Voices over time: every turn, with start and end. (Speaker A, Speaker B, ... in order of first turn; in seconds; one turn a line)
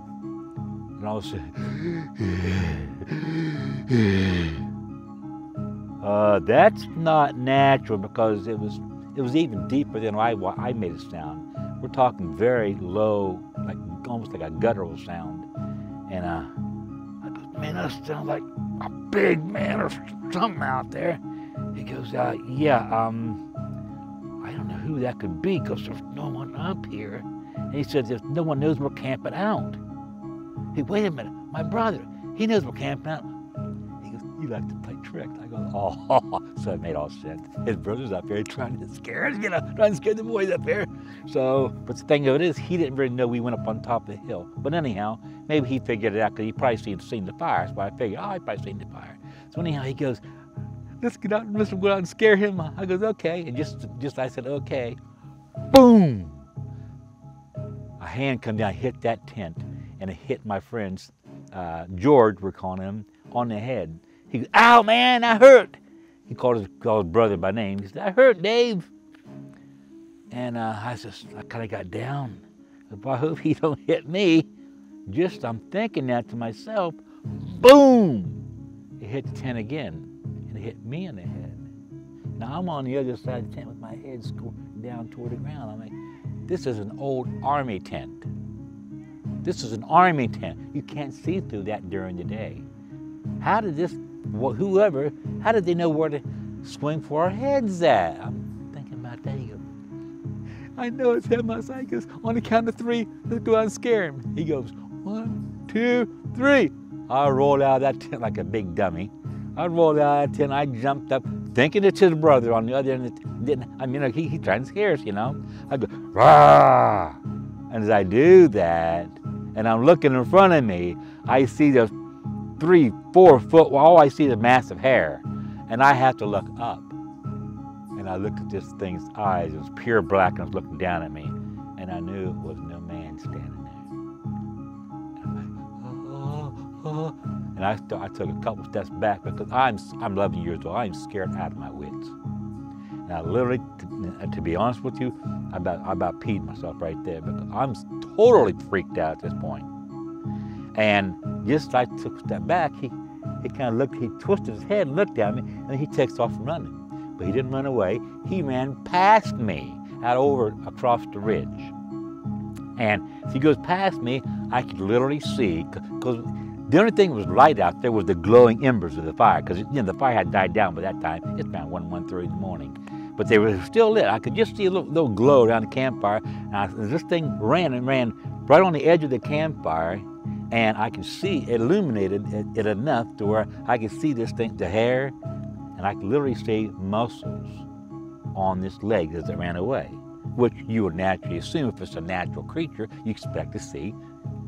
Speaker A: 1.0-4.6
Speaker A: 6.0-15.5
Speaker A: 16.1-16.5
Speaker A: 17.2-21.2
Speaker A: 21.7-23.4
Speaker A: 24.4-29.8
Speaker A: 30.7-33.3
Speaker A: 34.0-50.2
Speaker A: 51.0-55.0
Speaker A: 55.7-56.5
Speaker A: 58.0-68.9
Speaker A: 70.3-74.5
Speaker A: 75.1-78.4
Speaker A: 79.0-81.7
Speaker A: 82.4-88.3
Speaker A: 89.4-92.7
Speaker A: 93.4-99.7
Speaker A: 100.8-121.9
Speaker A: 122.6-126.9
Speaker A: 128.0-133.9
Speaker A: 135.2-142.2
Speaker A: 143.1-149.7
Speaker A: 150.7-161.7
Speaker A: 162.8-185.2
Speaker A: 185.7-187.7
Speaker A: 188.3-194.0